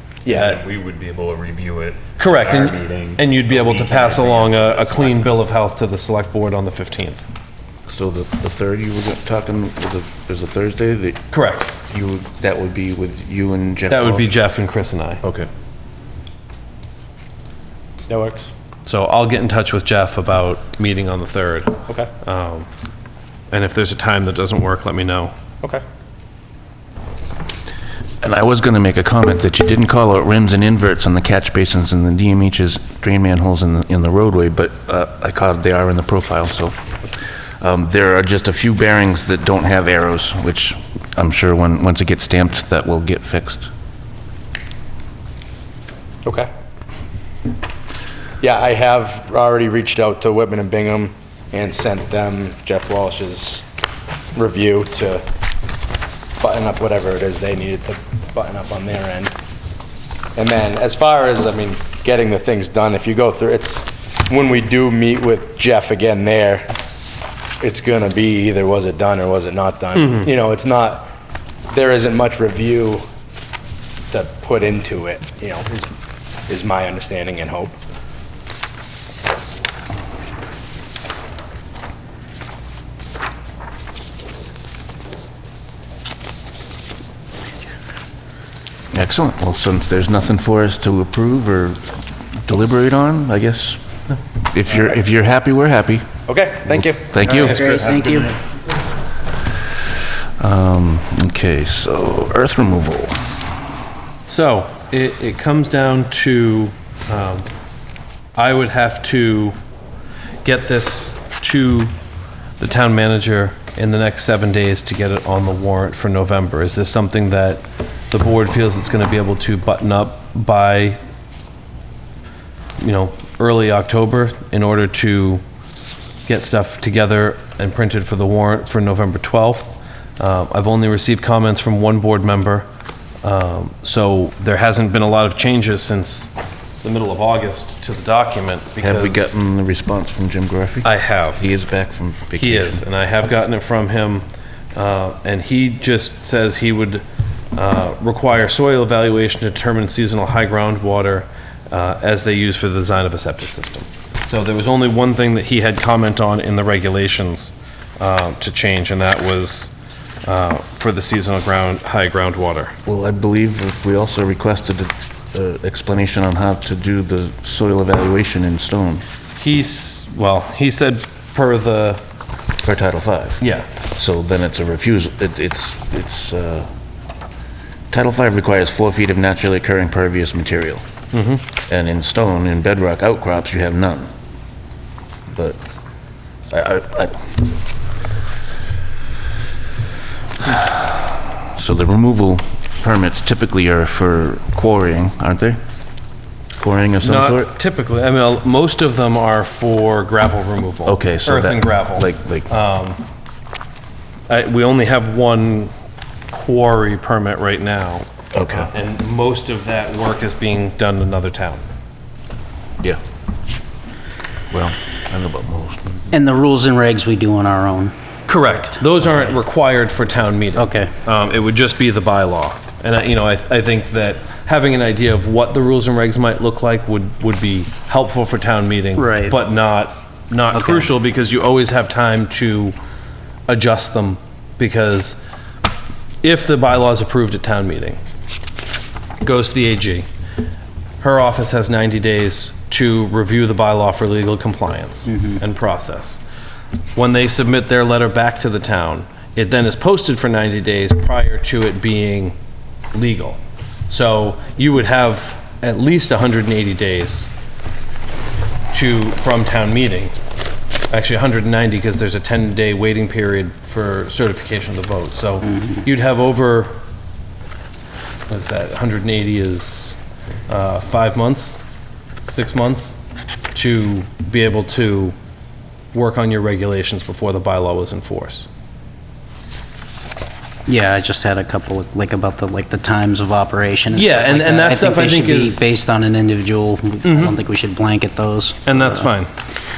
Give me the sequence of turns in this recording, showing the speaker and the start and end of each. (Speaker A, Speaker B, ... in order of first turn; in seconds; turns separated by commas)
Speaker A: 0.2-0.5, Speaker B: 0.3-0.6, Speaker C: 0.5-5.5, Speaker B: 2.2-7.2, Speaker D: 7.9-11.2, Speaker B: 11.3-11.7, Speaker D: 11.8-14.3, Speaker B: 13.9-15.2, Speaker D: 15.2-15.5, Speaker A: 18.1-18.5, Speaker B: 18.9-22.7, Speaker B: 23.5-25.3, Speaker D: 28.2-36.8, Speaker D: 37.6-43.7, Speaker A: 48.4-53.6, Speaker A: 54.3-55.2, Speaker A: 56.4-59.3, Speaker A: 60.4-66.7, Speaker A: 67.6-71.1, Speaker A: 71.7-73.0, Speaker A: 74.1-75.9, Speaker A: 76.5-77.8, Speaker D: 88.9-91.8, Speaker D: 92.4-93.8, Speaker D: 94.4-96.1, Speaker A: 96.3-98.2, Speaker D: 96.7-97.9, Speaker E: 97.2-98.4, Speaker D: 100.4-103.2, Speaker B: 104.2-107.5, Speaker B: 108.3-109.5, Speaker B: 110.4-111.9, Speaker B: 112.6-121.0, Speaker B: 122.8-125.4, Speaker B: 126.2-132.7, Speaker B: 133.2-139.3, Speaker D: 138.8-142.8, Speaker B: 140.8-141.4, Speaker B: 142.3-159.7, Speaker B: 160.2-162.7, Speaker D: 162.8-169.0, Speaker B: 169.4-172.0, Speaker D: 172.6-173.4, Speaker B: 173.4-173.7, Speaker D: 173.9-176.7, Speaker D: 177.9-180.8, Speaker B: 181.1-181.4, Speaker D: 181.7-184.1, Speaker D: 185.3-185.6, Speaker D: 186.5-187.5, Speaker D: 190.4-195.6, Speaker D: 196.6-197.5, Speaker B: 197.0-203.0, Speaker D: 200.8-202.5, Speaker B: 204.3-205.7, Speaker B: 206.3-211.6, Speaker D: 208.3-208.7, Speaker D: 214.5-216.1, Speaker E: 216.1-217.9, Speaker B: 218.3-232.8, Speaker E: 220.6-220.9, Speaker E: 229.0-229.3, Speaker E: 230.5-230.9, Speaker B: 233.5-235.2, Speaker B: 236.2-238.0, Speaker B: 239.2-240.1, Speaker B: 241.0-246.2, Speaker B: 246.9-252.3, Speaker B: 252.9-257.3, Speaker B: 258.7-260.1, Speaker B: 260.9-266.8, Speaker B: 268.3-271.6, Speaker B: 272.2-272.9, Speaker B: 273.5-275.1, Speaker B: 275.9-278.5, Speaker E: 280.7-289.1, Speaker B: 283.9-285.6, Speaker B: 287.0-287.3, Speaker B: 288.6-289.3